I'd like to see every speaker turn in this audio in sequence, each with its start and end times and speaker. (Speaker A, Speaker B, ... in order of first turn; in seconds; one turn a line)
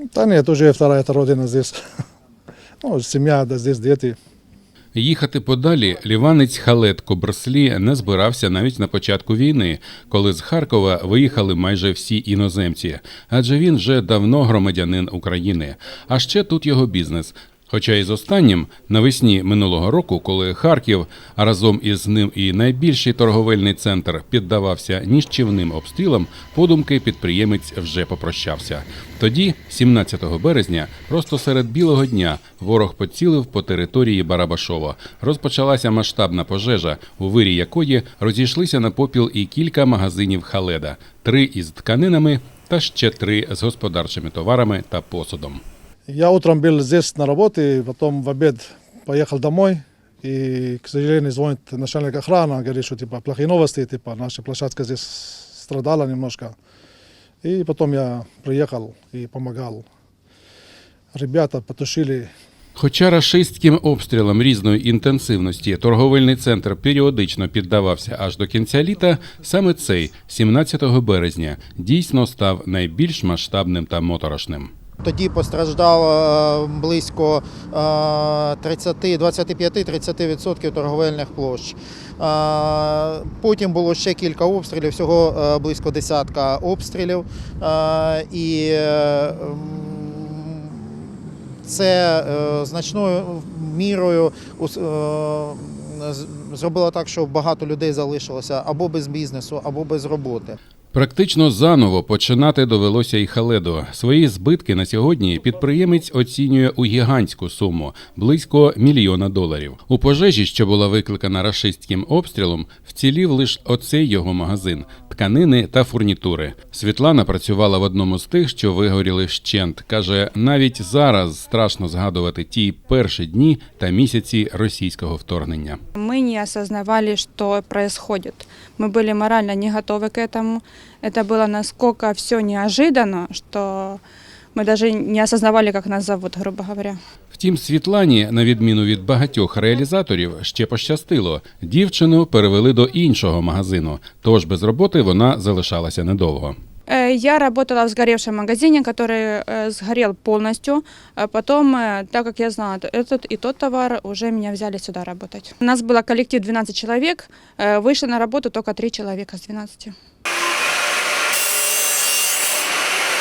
Speaker A: 0.1-1.8
Speaker A: 2.8-4.2
Speaker B: 4.9-45.6
Speaker A: 46.1-56.5
Speaker A: 57.4-59.8
Speaker A: 61.1-62.3
Speaker B: 62.8-74.7
Speaker C: 75.0-100.6
Speaker B: 100.9-125.8
Speaker D: 126.0-134.0
Speaker D: 134.5-137.0
Speaker B: 137.3-146.6
Speaker D: 146.9-159.9